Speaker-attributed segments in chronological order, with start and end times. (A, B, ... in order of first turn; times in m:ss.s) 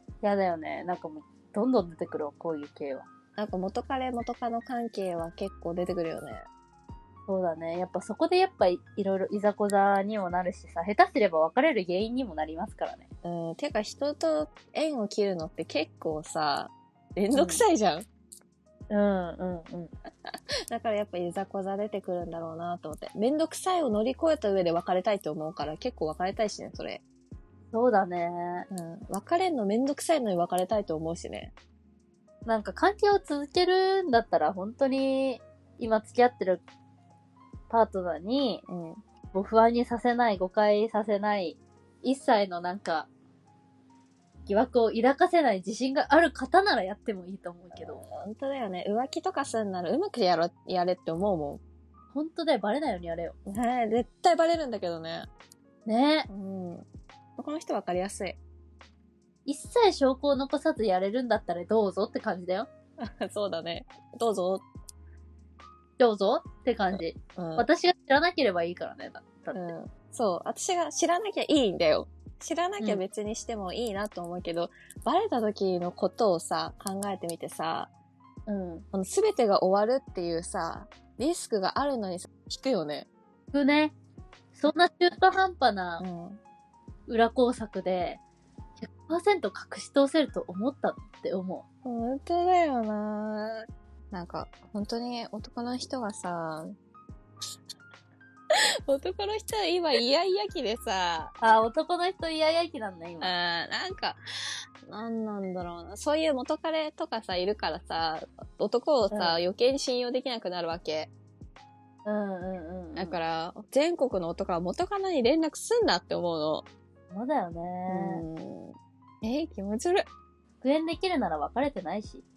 0:00.2-0:03.1 A
0:03.4-0:06.4 B
0:07.3-0:13.1 A
0:13.2-0:18.0 B
0:17.3-0:17.6 A
0:18.9-0:19.9 A
0:20.3-0:27.0 B
0:27.7-0:28.7 A
0:28.7-0:31.5 B
0:32.4-0:36.6 A
0:37.7-0:38.6 A
0:38.7-0:39.0 B
0:39.3-0:43.1 A
0:44.5-0:48.0 A
0:47.8-0:51.6 B
0:52.1-0:53.3 A
0:53.4-0:55.3 B
0:55.8-0:56.3 A
0:56.3-0:56.8 B
0:57.4-0:58.4 B
0:59.4-1:02.7 A
1:03.0-1:04.6 B
1:06.0-1:09.7 A
1:06.9-1:07.7 B
1:09.5-1:17.9 B
1:18.5-1:18.8 A
1:18.9-1:23.1 B
1:23.5-1:23.9 A
1:24.5-1:26.0 A
1:26.0-1:26.4 B
1:27.1-1:28.2 A
1:28.8-1:31.6 A
1:31.8-1:36.7 B
1:38.5-1:41.3 B
1:41.4-1:43.3 A
1:43.2-1:44.2 B
1:44.8-1:51.1 B
1:49.1-1:49.3 A
1:52.0-1:53.2 A
1:53.0-1:56.7 B
1:57.1-1:58.2 A
1:57.9-2:00.1 B
2:00.6-2:02.2 A